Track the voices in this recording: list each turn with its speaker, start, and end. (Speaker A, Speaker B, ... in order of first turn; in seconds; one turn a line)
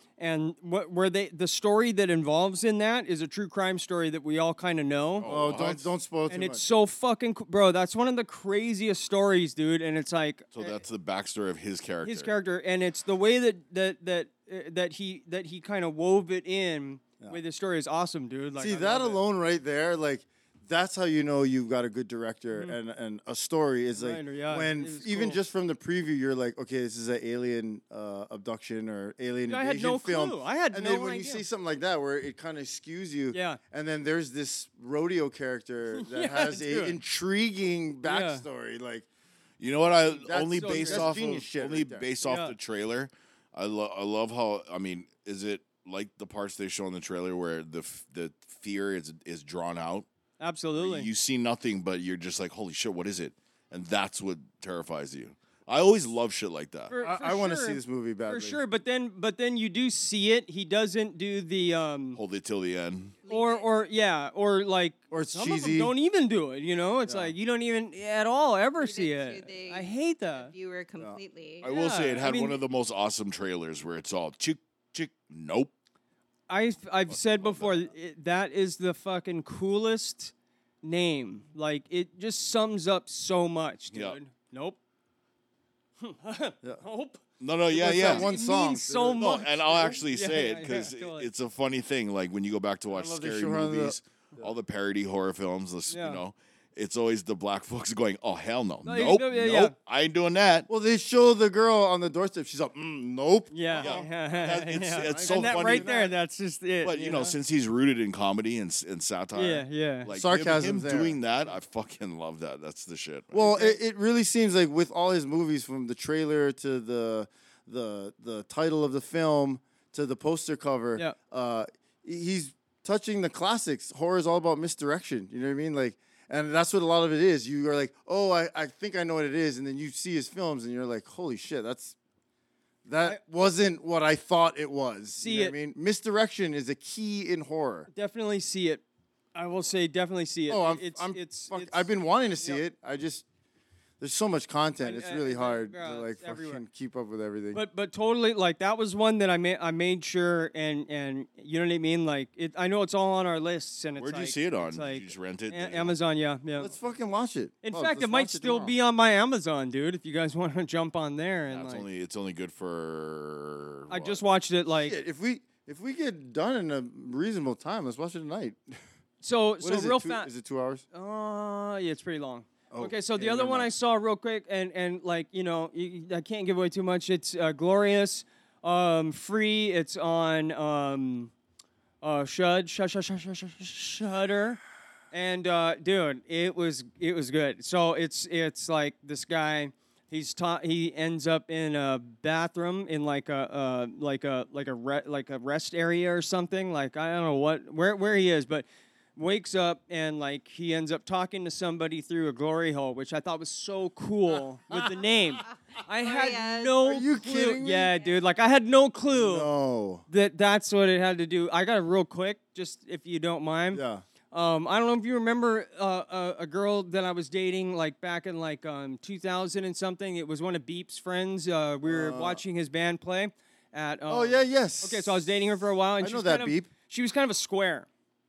Speaker A: 0.2-5.3
Speaker B: 5.2-5.9
Speaker C: 5.3-6.6
Speaker A: 6.3-10.6
Speaker B: 10.5-12.3
Speaker A: 12.0-19.2
Speaker C: 18.6-39.1
Speaker A: 23.9-25.4
Speaker A: 29.5-31.4
Speaker A: 33.3-33.6
Speaker A: 35.9-37.0
Speaker A: 38.0-38.5
Speaker B: 39.6-50.1
Speaker C: 40.1-42.1
Speaker A: 40.5-41.1
Speaker A: 42.2-42.5
Speaker A: 50.4-51.1
Speaker B: 50.8-56.9
Speaker A: 56.9-62.2
Speaker C: 57.0-58.6
Speaker B: 62.1-63.2
Speaker D: 63.2-63.7
Speaker A: 63.3-70.5
Speaker C: 65.1-65.9
Speaker C: 67.1-67.3
Speaker D: 68.8-71.7
Speaker B: 71.6-75.7
Speaker A: 71.6-72.6
Speaker A: 76.5-84.8
Speaker B: 77.1-77.9
Speaker B: 83.9-84.2
Speaker A: 86.0-87.2
Speaker B: 87.4-88.3
Speaker C: 87.7-90.0
Speaker A: 87.8-91.3
Speaker B: 89.2-100.7
Speaker C: 92.9-94.5
Speaker A: 95.9-96.2
Speaker A: 98.8-99.7
Speaker C: 100.7-104.1
Speaker A: 103.5-107.3
Speaker B: 103.8-105.9
Speaker C: 104.8-106.1
Speaker B: 106.8-113.4
Speaker A: 109.3-110.1
Speaker C: 110.1-111.2
Speaker C: 113.3-132.0
Speaker A: 113.4-113.8
Speaker C: 132.8-137.9
Speaker A: 135.2-135.6
Speaker A: 137.9-138.8
Speaker A: 139.3-141.9
Speaker C: 140.5-143.2
Speaker C: 144.0-147.6
Speaker A: 144.8-146.6
Speaker A: 147.5-156.7
Speaker B: 154.0-155.9
Speaker C: 156.6-158.8
Speaker A: 157.6-161.9
Speaker B: 161.5-164.2
Speaker A: 163.9-165.0
Speaker C: 164.8-168.8
Speaker A: 169.2-170.3
Speaker C: 169.6-170.8
Speaker A: 170.9-181.3
Speaker C: 172.7-173.7
Speaker A: 182.0-184.6
Speaker A: 185.1-209.5
Speaker D: 205.9-206.8
Speaker C: 206.8-207.9
Speaker D: 208.0-208.2
Speaker C: 209.1-210.1
Speaker A: 210.1-227.9
Speaker C: 213.7-214.1
Speaker C: 221.8-222.4
Speaker C: 224.1-225.4
Speaker C: 226.0-226.7